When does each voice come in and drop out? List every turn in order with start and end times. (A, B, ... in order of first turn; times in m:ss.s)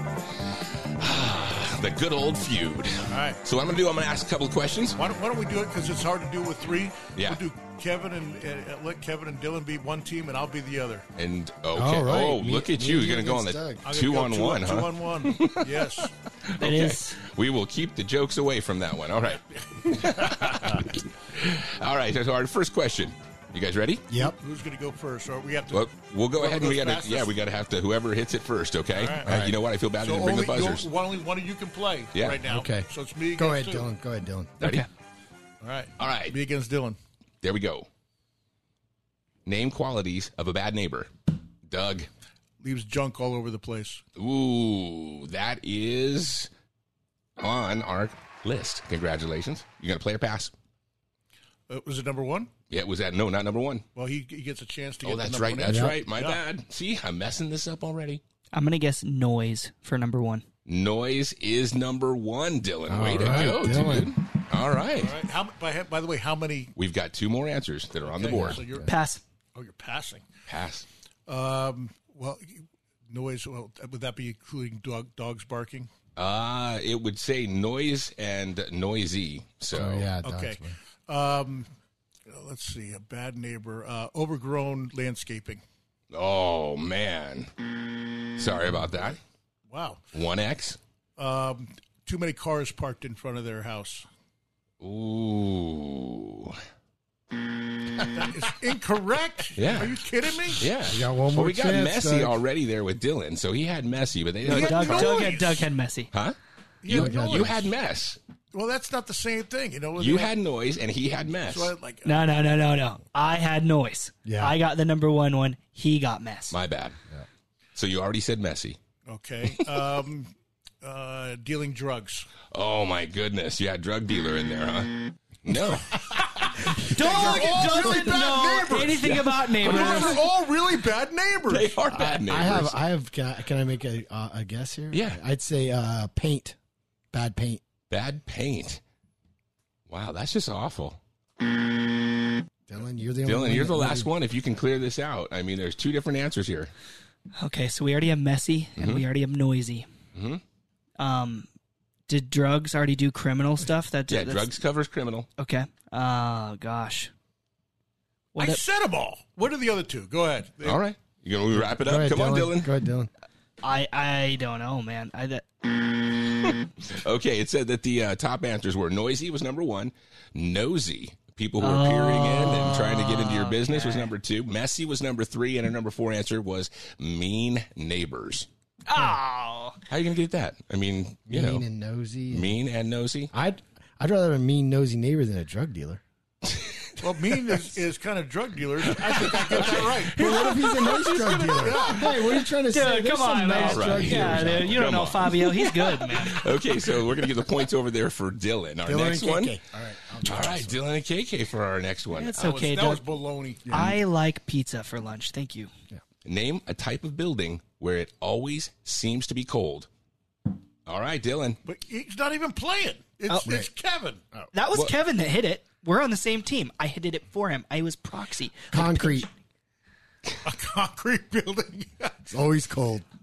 0:01.0-0:05.0 A
0:03.0-0:03.4 B
0:05.0-0:11.1 B
0:07.1-0:07.4 A
0:11.2-0:24.0 A
0:11.7-0:13.9 C
0:13.8-0:16.1 B
0:16.6-0:17.2 D
0:19.2-0:20.8 B
0:24.1-0:24.4 C
0:24.2-0:27.3 B
0:25.7-0:30.9 A
0:28.9-0:29.3 B
0:29.2-0:29.6 C
0:30.0-0:33.9 B
0:32.1-0:32.4 A
0:32.4-0:34.6 C
0:34.6-0:34.8 A
0:34.6-0:34.9 D
0:35.6-0:37.0 B
0:36.0-0:36.4 A
0:37.4-0:37.9 A
0:39.4-0:41.1 A
0:41.7-0:42.1 A
0:42.6-0:44.0 B
0:44.2-0:46.5 A
0:47.4-0:50.5 A
0:51.7-0:52.5 B
0:52.7-0:53.8 A
0:53.9-0:56.4 B
0:55.0-0:58.2 A
0:55.6-0:56.0 C
0:58.5-1:00.4 D
1:00.6-1:05.2 A
1:02.9-1:04.2 C
1:05.0-1:06.7 B
1:06.8-1:08.6 A
1:08.0-1:09.0 B
1:08.4-1:08.8 C
1:08.8-1:09.2 D
1:09.5-1:10.3 B
1:10.5-1:10.8 A
1:11.3-1:15.9 B
1:16.2-1:20.1 A
1:19.7-1:20.7 C
1:20.2-1:21.7 B
1:22.3-1:25.6 B
1:26.1-1:27.5 A
1:28.3-1:29.2 A
1:29.7-1:30.0 B
1:30.1-1:30.8 A
1:31.2-1:34.1 B
1:34.8-1:36.6 A
1:38.1-1:40.7 B
1:39.6-1:40.0 A
1:40.6-1:45.4 A
1:40.9-1:42.4 C
1:44.4-1:46.1 D
1:44.4-1:45.7 B
1:46.1-1:48.2 A
1:46.8-1:47.6 B
1:46.9-1:47.7 C
1:48.5-1:50.3 B
1:50.0-1:51.7 A
1:51.4-1:52.2 B
1:52.0-1:56.6 D
1:54.2-1:54.6 C
1:56.5-1:57.0 A
1:57.8-1:58.8 A
1:59.1-2:02.3 B
2:02.5-2:07.4 A
2:05.9-2:11.8 B
2:06.8-2:10.2 D
2:08.8-2:10.3 A
2:11.5-2:12.7 A
2:11.9-2:16.6 C
2:14.9-2:15.2 A
2:17.1-2:17.6 C
2:17.9-2:18.8 A
2:19.9-2:21.0 A
2:22.7-2:24.1 C
2:23.2-2:26.7 A
2:27.4-2:29.9 D
2:28.8-2:29.0 A
2:30.1-2:30.4 A
2:31.0-2:31.5 D
2:32.1-2:34.5 D
2:34.1-2:35.3 A
2:35.4-2:37.1 D
2:38.3-2:38.6 D
2:38.4-2:40.8 B
2:40.6-2:42.7 A
2:41.5-2:43.1 C
2:43.6-2:45.4 D
2:46.3-2:58.5 A
2:51.6-2:54.1 D
2:58.8-2:59.8 D
2:59.9-3:01.6 A
3:01.3-3:02.6 C
3:02.3-3:03.3 A
3:03.3-3:06.0 C
3:06.4-3:07.0 A
3:07.0-3:12.2 B
3:08.8-3:12.2 A
3:09.6-3:15.1 C
3:12.7-3:16.6 D
3:13.6-3:19.6 A
3:18.8-3:20.8 C
3:20.2-3:22.6 A
3:22.1-3:23.0 D
3:22.3-3:23.9 B
3:23.6-3:24.0 C
3:23.7-3:25.7 D
3:26.2-3:29.9 A
3:30.8-3:31.6 A
3:31.6-3:34.2 B
3:33.3-3:33.6 D
3:34.5-3:39.3 D
3:38.7-3:39.3 C
3:40.4-3:42.2 B
3:42.3-3:43.1 C